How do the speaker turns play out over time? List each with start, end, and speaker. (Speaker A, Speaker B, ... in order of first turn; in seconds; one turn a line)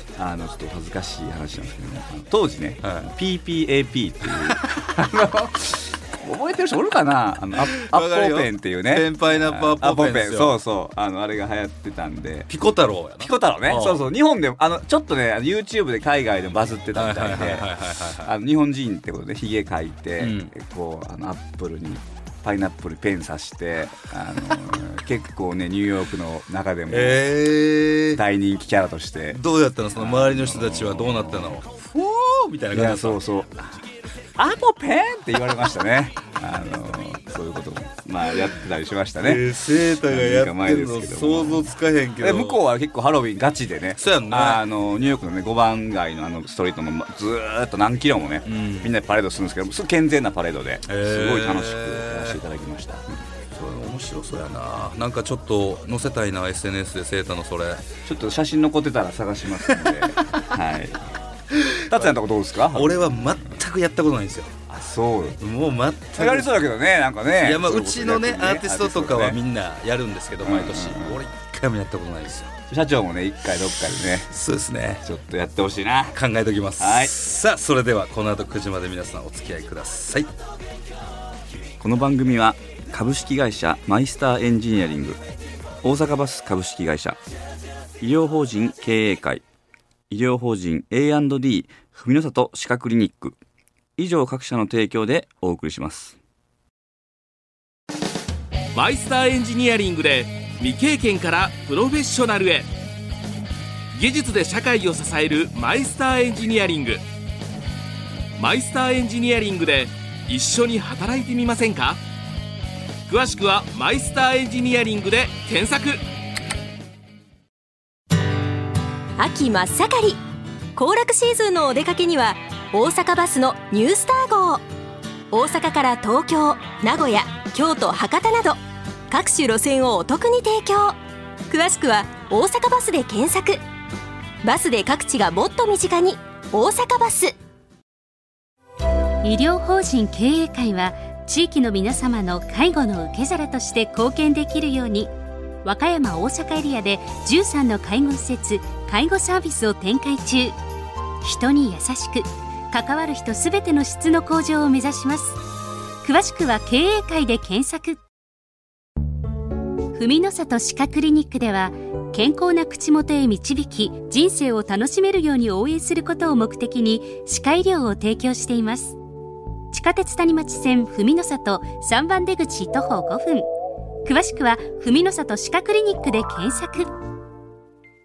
Speaker A: 0.1-12.5
Speaker B: 2.8-3.1
Speaker B: 7.6-10.6
Speaker B: 12.5-14.0
Speaker A: 13.2-17.7
Speaker B: 16.9-18.3
Speaker A: 18.2-27.3
Speaker B: 20.2-20.5
Speaker B: 26.9-28.2
Speaker A: 28.1-29.4
Speaker B: 29.3-33.2
Speaker A: 29.9-31.6
Speaker A: 32.7-33.7
Speaker A: 34.4-39.5
Speaker B: 39.2-42.6
Speaker A: 40.0-41.7
Speaker A: 42.2-53.1
Speaker B: 44.0-44.6
Speaker B: 48.4-48.9
Speaker B: 50.9-52.4
Speaker B: 53.5-57.8
Speaker A: 58.0-61.0
Speaker B: 59.7-60.0
Speaker B: 61.5-62.1
Speaker A: 61.9-63.2
Speaker B: 62.7-64.5
Speaker A: 64.7-65.4
Speaker B: 65.4-66.6
Speaker A: 66.2-69.4
Speaker B: 67.4-72.5
Speaker A: 70.4-71.2
Speaker A: 72.7-74.3
Speaker B: 74.2-75.0
Speaker A: 75.0-76.2
Speaker B: 76.1-80.3
Speaker A: 76.8-77.1
Speaker A: 81.8-85.2
Speaker A: 85.8-87.2
Speaker A: 88.0-89.4
Speaker A: 90.1-93.4
Speaker A: 94.0-96.2
Speaker C: 98.7-102.7
Speaker C: 103.9-107.0
Speaker C: 108.4-112.0
Speaker C: 113.1-116.0
Speaker D: 119.2-120.2
Speaker D: 120.8-124.6
Speaker D: 125.3-131.0
Speaker D: 131.5-133.6
Speaker D: 134.4-137.3
Speaker E: 139.2-145.1
Speaker E: 145.6-150.6
Speaker E: 151.2-155.4
Speaker E: 156.0-158.0
Speaker E: 159.9-168.9
Speaker E: 169.7-173.4
Speaker E: 174.0-176.9